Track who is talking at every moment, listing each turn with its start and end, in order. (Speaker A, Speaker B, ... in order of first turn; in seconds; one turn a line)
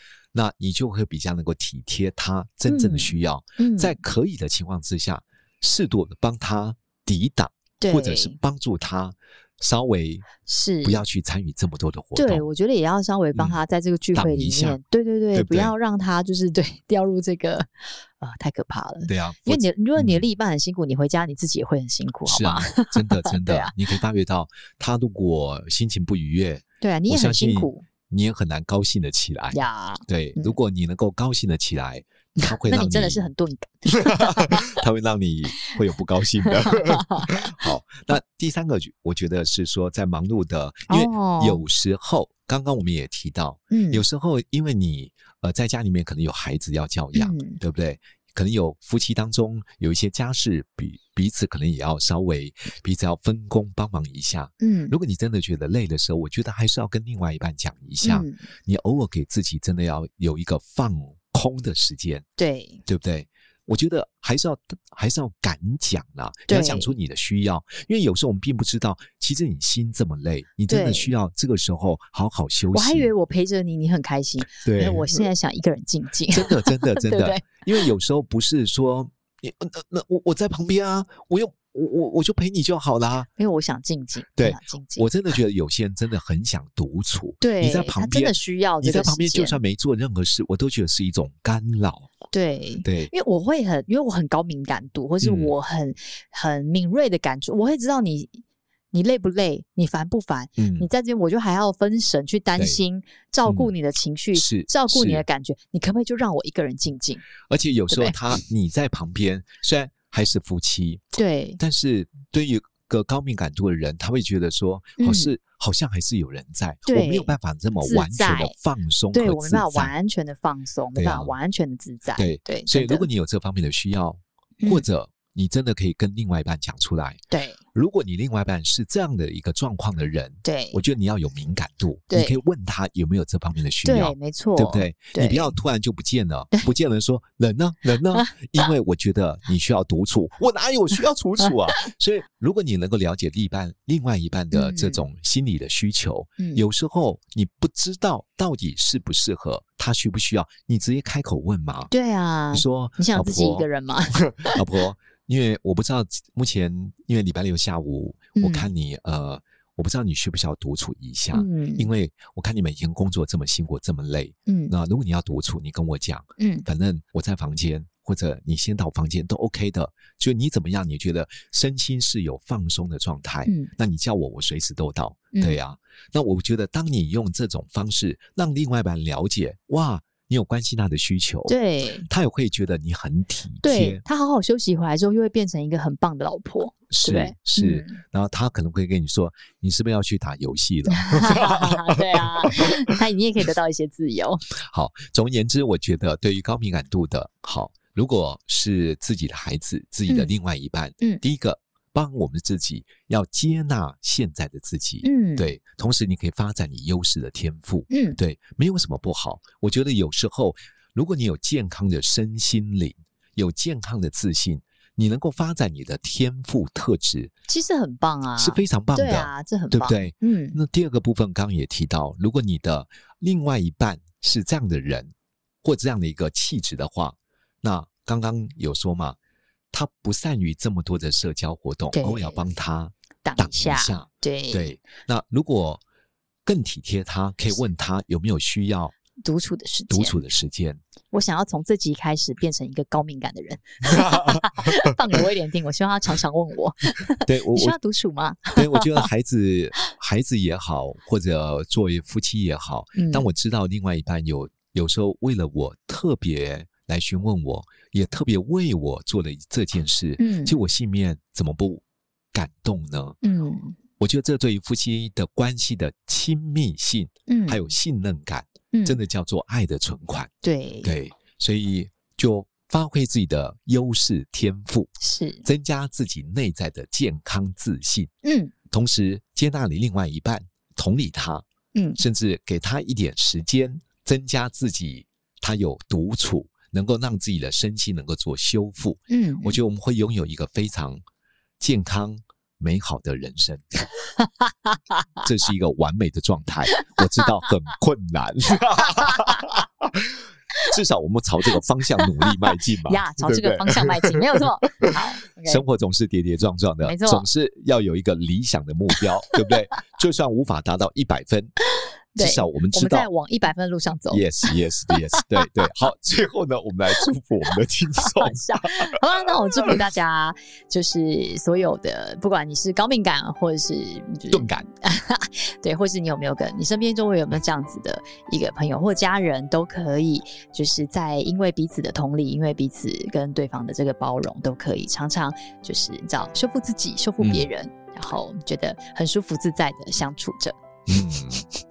Speaker A: 0.3-10.3
Speaker B: 2.7-4.0
Speaker B: 7.8-8.4
Speaker B: 10.4-11.0
Speaker A: 10.8-12.5
Speaker B: 12.1-23.7
Speaker A: 14.1-14.8
Speaker A: 15.3-15.7
Speaker A: 19.1-20.2
Speaker A: 22.3-33.3
Speaker B: 26.8-27.8
Speaker B: 29.5-30.5
Speaker B: 32.4-34.8
Speaker A: 34.0-62.2
Speaker B: 36.5-37.5
Speaker B: 40.9-41.6
Speaker B: 43.7-44.0
Speaker B: 47.1-47.6
Speaker B: 54.6-54.9
Speaker B: 58.0-58.4
Speaker B: 62.4-62.8
Speaker A: 62.9-73.1
Speaker B: 66.5-66.9
Speaker B: 70.7-71.1
Speaker B: 72.7-77.8
Speaker A: 74.6-75.3
Speaker A: 76.3-83.3
Speaker B: 83.4-85.1
Speaker A: 84.3-92.1
Speaker B: 87.4-89.6
Speaker B: 92.3-107.2
Speaker A: 92.8-93.1
Speaker A: 95.2-95.5
Speaker A: 100.6-100.9
Speaker A: 103.5-103.7
Speaker A: 104.3-105.2
Speaker A: 107.5-119.9
Speaker B: 107.9-108.2
Speaker B: 111.1-111.6
Speaker B: 115.0-115.3
Speaker B: 116.8-118.5
Speaker B: 119.1-123.1
Speaker A: 120.9-121.3
Speaker A: 122.2-127.2
Speaker B: 124.6-124.8
Speaker B: 127.3-127.6
Speaker A: 127.7-151.9
Speaker B: 130.4-130.8
Speaker B: 132.1-132.4
Speaker B: 133.8-135.5
Speaker B: 138.1-138.5
Speaker B: 144.5-145.0
Speaker B: 146.4-146.6
Speaker B: 151.9-154.6
Speaker A: 152.5-153.7
Speaker A: 154.3-181.5
Speaker B: 158.3-158.7
Speaker B: 161.3-161.9
Speaker B: 164.5-164.7
Speaker B: 166.4-166.7
Speaker B: 173.4-173.7
Speaker B: 175.3-175.6
Speaker B: 181.5-182.1
Speaker A: 182.1-184.0
Speaker B: 183.6-188.0
Speaker A: 186.9-192.9
Speaker B: 190.9-194.4
Speaker A: 194.6-217.3
Speaker B: 205.0-205.5
Speaker B: 207.9-208.2
Speaker B: 217.5-220.6
Speaker A: 218.4-229.2
Speaker A: 229.7-235.8
Speaker B: 231.9-232.4
Speaker B: 233.2-234.8
Speaker A: 236.4-238.9
Speaker B: 239.2-240.2
Speaker A: 239.9-240.8
Speaker B: 241.1-249.1
Speaker A: 243.9-244.9
Speaker A: 247.2-247.7
Speaker A: 248.5-261.8
Speaker B: 252.9-253.2
Speaker B: 260.2-260.5
Speaker A: 262.3-263.2
Speaker B: 263.2-263.8
Speaker A: 264.0-270.3
Speaker B: 267.3-267.6
Speaker B: 268.7-269.0
Speaker B: 270.4-270.9
Speaker A: 270.8-274.9
Speaker B: 275.0-275.4
Speaker A: 275.4-278.1
Speaker B: 278.2-278.5
Speaker A: 278.7-281.4
Speaker B: 281.7-282.0
Speaker A: 282.0-291.0
Speaker B: 289.1-289.6
Speaker A: 291.6-293.8
Speaker B: 294.2-294.8
Speaker A: 295.2-304.3
Speaker B: 296.7-297.2
Speaker B: 298.9-299.4
Speaker B: 302.2-305.6
Speaker A: 304.8-311.5
Speaker B: 306.8-307.2
Speaker B: 312.1-315.5
Speaker A: 312.2-313.1
Speaker A: 314.1-318.9
Speaker B: 318.0-340.6
Speaker A: 324.3-324.6
Speaker A: 337.2-337.5
Speaker A: 340.9-341.5